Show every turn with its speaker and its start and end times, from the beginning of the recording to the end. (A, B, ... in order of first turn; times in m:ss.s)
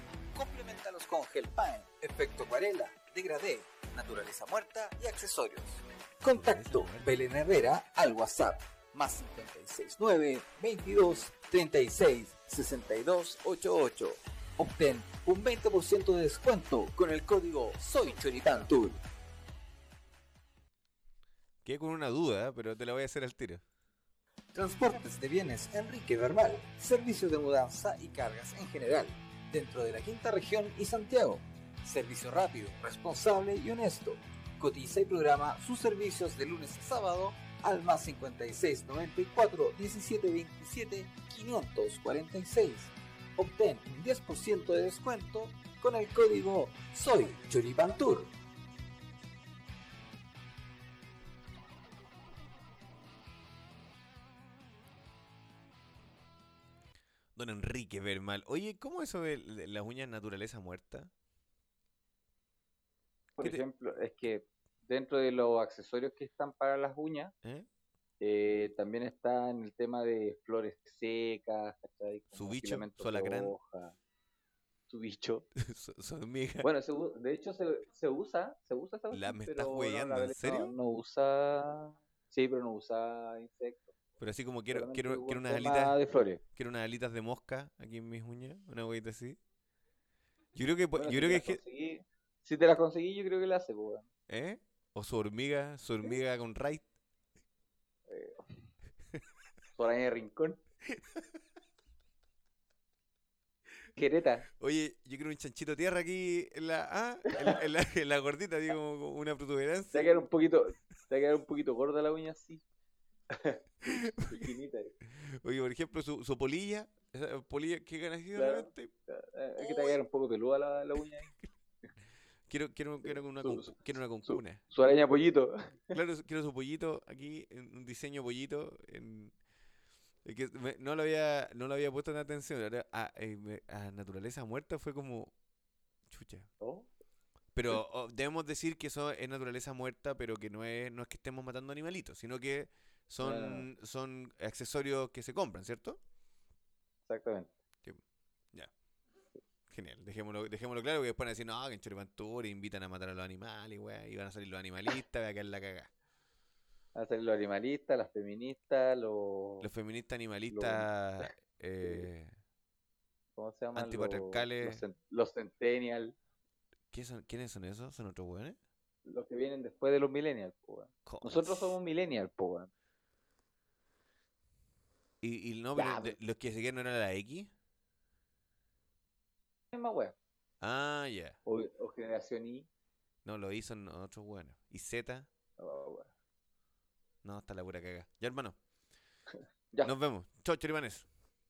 0:00.3-0:19.0 A
0:06.3-0:07.1 B
0:21.6-0:23.6 B
0:24.5-0:48.3 A
0:57.4-1:01.1 B
1:03.4-1:03.6 B
1:03.4-1:07.3 C
1:08.2-1:14.0 C
1:12.4-1:13.6 B
1:14.9-1:15.5 C
1:15.6-1:16.7 B
1:16.6-1:23.9 C
1:19.1-1:20.7 B
1:24.2-1:26.0 B
1:24.7-1:26.4 C
1:26.6-1:29.4 B
1:30.6-1:31.6 B
1:31.0-1:34.1 C
1:34.3-1:36.8 B
1:38.1-1:38.4 C
1:39.8-1:40.6 C
1:44.0-1:44.5 C
1:44.6-1:50.2 B
1:49.9-1:52.6 C
1:53.3-1:53.6 C
1:53.8-1:54.5 B
1:54.2-1:55.0 C
1:55.1-1:58.9 B
1:58.4-2:01.3 C
1:59.6-2:00.0 B
2:02.5-2:04.6 B
2:03.0-2:05.8 C
2:05.9-2:09.3 B
2:10.2-2:15.3 B
2:16.1-2:16.5 B
2:16.6-2:16.9 C
2:17.6-2:26.0 B
2:23.2-2:23.7 C
2:27.1-2:27.5 C
2:29.7-2:35.9 B
2:37.0-2:39.7 C
2:39.6-2:42.4 B
2:40.5-2:41.3 C
2:43.4-2:46.2 C
2:43.8-2:44.8 B
2:46.9-2:48.6 B
2:49.1-2:52.7 C
2:51.1-2:51.8 B
2:55.2-2:57.5 B
2:55.8-2:56.2 C
2:59.7-3:00.2 C
3:00.6-3:01.4 B
3:01.5-3:02.7 C
3:03.2-3:05.3 B
3:05.6-3:06.1 C
3:07.2-3:08.6 B
3:09.8-3:11.1 B